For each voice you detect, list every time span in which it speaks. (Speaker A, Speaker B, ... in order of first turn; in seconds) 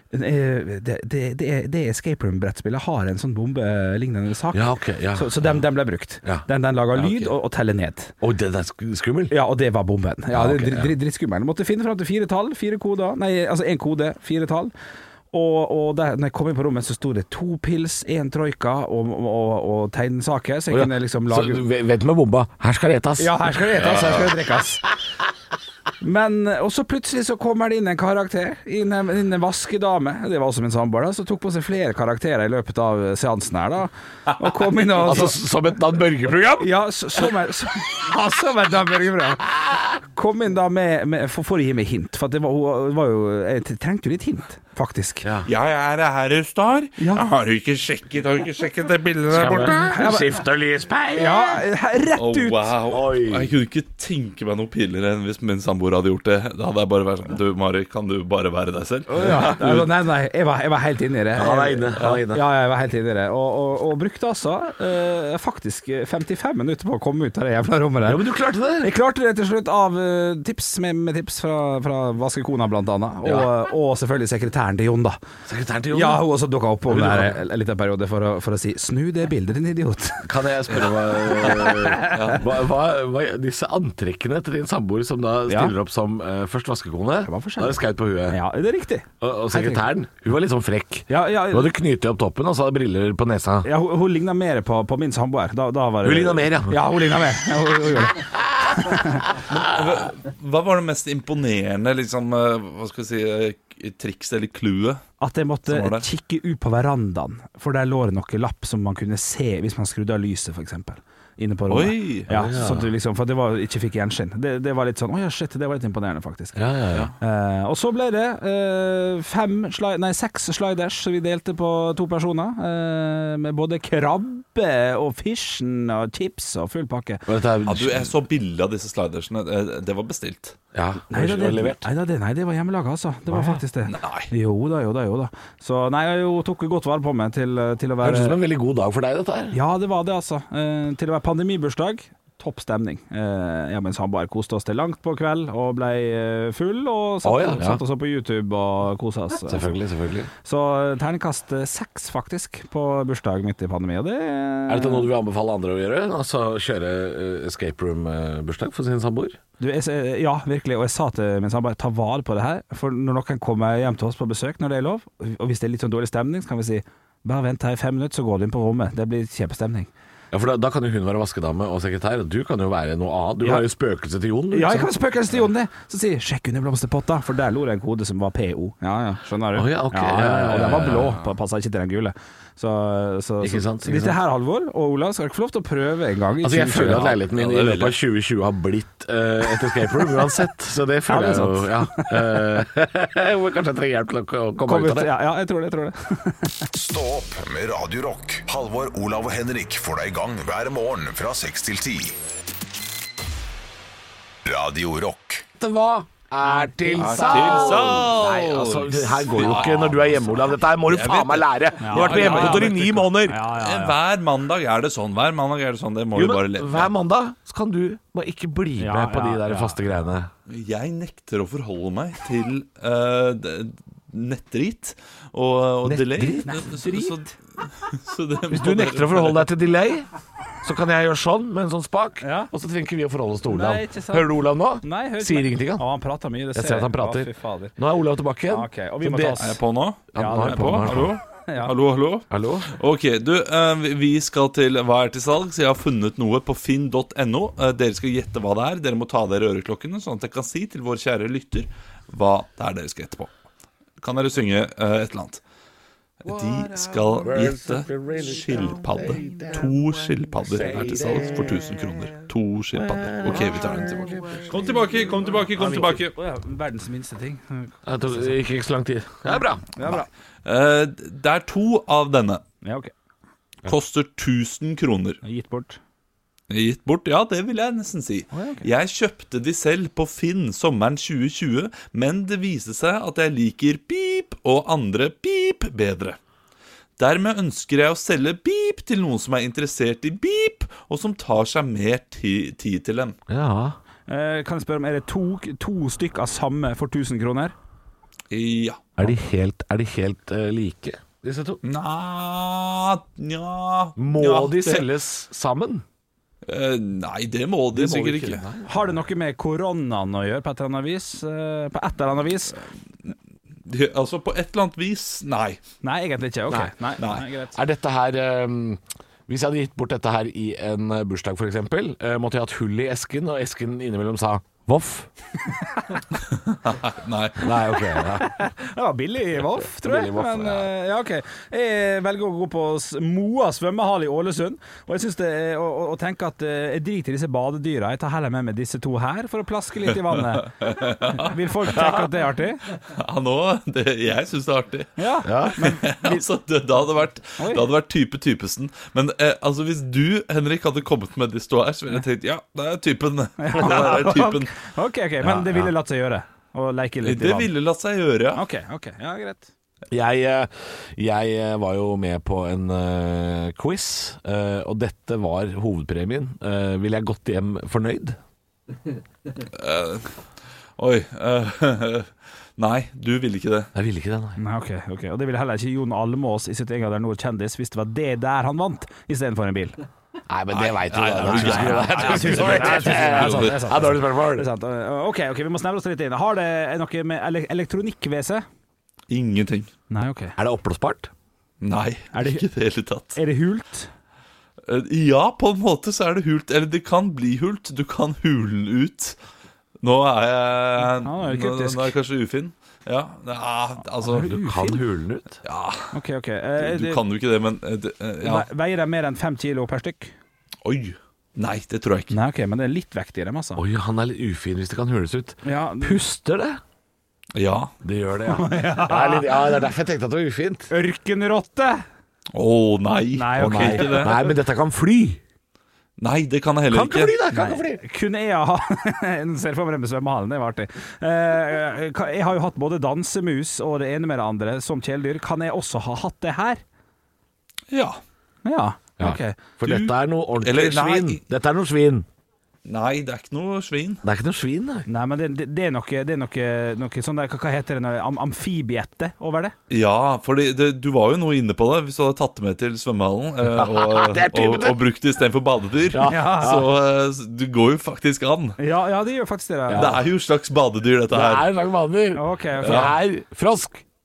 Speaker A: 0.1-8.1, 9.3-14.7, 15.3-21.6, 23.2-24.9, 26.0-35.4, 36.6-45.2, 47.0-47.3, 49.8-50.4, 51.1-52.7, 59.1-75.2, 75.9-80.3, 81.7-82.4, 85.5-85.7, 87.2-89.9, 91.1-91.8, 93.6-99.3, 105.2-116.6, 117.2-127.2, 131.1-138.4, 139.5-149.7, 150.4-155.1, 159.6-169.9, 173.4-173.7, 174.5-187.2, 191.1-192.4, 194.6-196.7, 206.4-207.6, 211.8-214.0, 218.8-219.8, 226.4-227.3, 232.2-232.5, 233.5-237.7, 238.5-239.6, 240.2-241.7, 265.5-268.4, 269.7-270.1, 272.6-272.9, 275.2-275.8, 278.3-278.7, 294.1-297.5, 308.6-312.6, 315.8-317.6, 325.5-326.0, 328.2-342.6, 345.0-346.3, 347.4-347.6, 353.4-357.5, 358.3-359.5, 374.4-379.8, 381.3-388.4, 389.9-390.4, 392.1-392.4, 393.1-393.9, 400.8-401.9, 404.0-404.8, 405.9-407.0, 408.2-410.1, 412.1-413.6, 415.4-416.0, 418.3-419.5, 420.7-421.8, 423.1-424.3, 427.3-436.6, 438.4-439.4, 444.9-449.6, 456.1-456.6, 458.6-459.9, 462.1-462.9
Speaker B: 4.5-5.6, 8.2-9.3, 10.3-10.9, 20.7-24.4, 35.0-36.7, 45.2-45.5, 49.3-51.6, 52.9-53.5, 59.2-59.6, 61.3-62.4, 68.0-68.9, 73.2-73.5, 75.5-76.2, 76.9-77.4, 80.2-88.4, 89.2-93.7, 96.0-96.8, 112.3-112.9, 116.5-117.1, 127.2-128.1, 130.7-131.9, 133.3-133.6, 138.0-139.6, 147.2-147.8, 149.5-150.3, 154.7-159.4, 170.3-174.9, 179.5-181.2, 183.4-184.2, 186.4-195.1, 205.6-213.4, 216.1-220.3, 225.8-226.6, 228.5-230.1, 230.6-235.8, 236.5-239.4, 240.1-241.2, 242.3-242.7, 257.2-259.7, 260.5-261.7, 262.8-264.8, 267.9-270.1, 293.3-293.8, 299.0-301.6, 304.0-305.9, 307.7-309.0, 316.5-316.7, 317.5-325.1, 327.4-328.4, 329.6-330.7, 345.2-345.7, 359.9-368.2, 373.7-374.4, 380.3-384.5, 390.4-391.1, 404.2-405.4, 413.6-416.6, 417.8-420.7, 423.4-425.2, 426.7-427.8, 439.0-442.1, 444.0-444.9, 453.4-454.8, 455.9-456.7, 459.7-460.0, 461.1-463.8
Speaker C: 45.5-49.9, 52.1-59.9, 82.1-82.4, 99.5-105.0, 105.7-106.0, 111.7-112.3, 127.6-130.6, 133.9-134.3, 187.3-187.9, 207.0-216.9, 220.5-229.5, 239.4-253.3, 254.0-255.4, 256.2-266.1, 270.4-272.4, 273.6-275.2, 276.5-286.2, 287.0-293.1, 298.3-299.0, 301.6-304.9, 306.4-308.4, 313.6-315.6, 326.3-327.5, 340.4-342.1, 342.7-354.5, 357.0-358.4, 369.5-370.1, 370.8-373.7, 380.5-383.8, 389.1-389.7, 391.6-393.2, 394.7-399.2, 399.8-404.3, 405.4-405.9, 406.6-408.4, 410.6-412.1, 417.4-417.7, 422.3-424.1, 426.0-427.1, 437.7-438.0, 439.6-439.9, 440.4-441.2, 442.6-444.0, 449.7-458.6, 459.7-461.5, 462.6-462.9
Speaker D: 196.7-202.2, 204.4-205.4